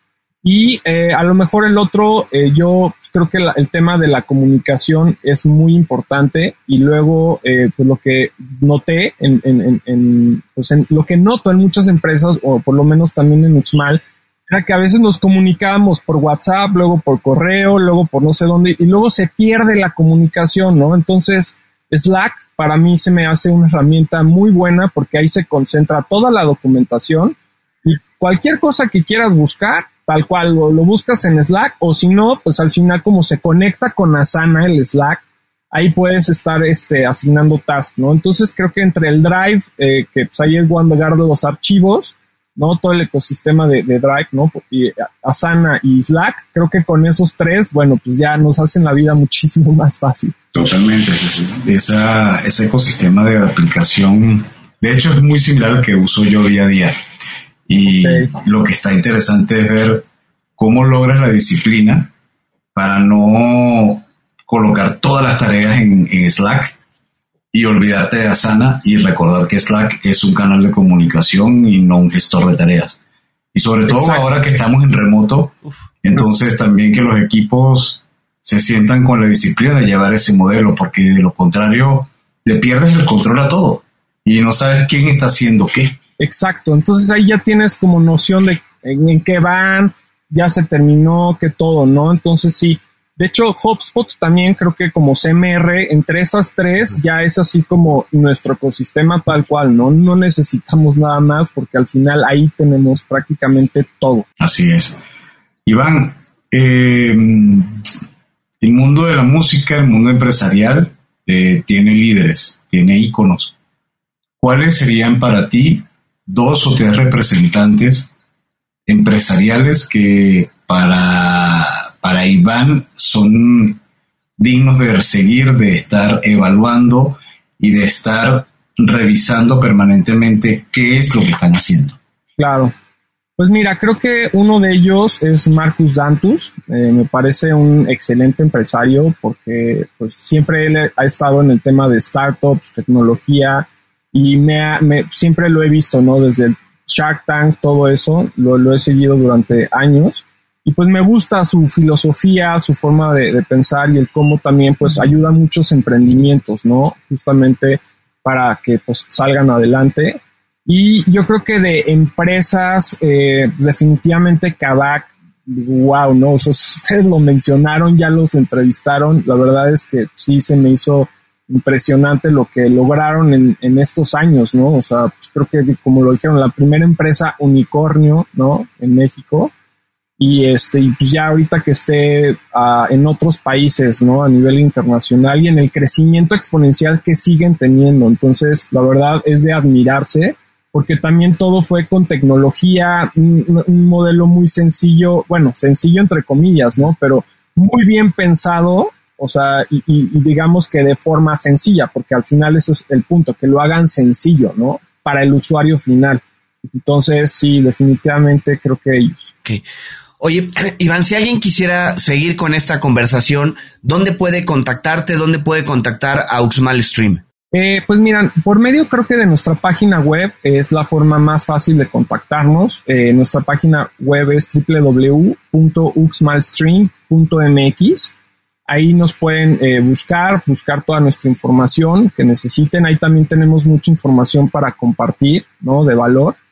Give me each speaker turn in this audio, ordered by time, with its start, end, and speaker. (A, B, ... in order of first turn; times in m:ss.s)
0:00.4-0:50.4 A
0:50.5-0:57.0 B
0:57.7-1:00.1 B
0:57.9-0:58.3 A
1:00.6-1:02.1 B
1:02.8-1:06.8 B
1:07.5-1:13.0 B
1:13.5-1:26.0 B
1:13.9-1:14.2 A
1:26.2-1:44.3 A
1:44.4-1:45.0 B
1:45.7-1:47.8 B
1:48.6-1:53.5 B
1:54.4-1:58.1 B
1:58.9-2:03.8 B
2:04.4-2:12.0 B
2:12.4-2:12.7 A
2:13.4-2:59.5 A
3:00.2-3:26.2 A
3:26.8-3:29.3 A
3:30.2-3:37.2 C
3:37.5-3:48.1 A
3:48.7-3:56.4 A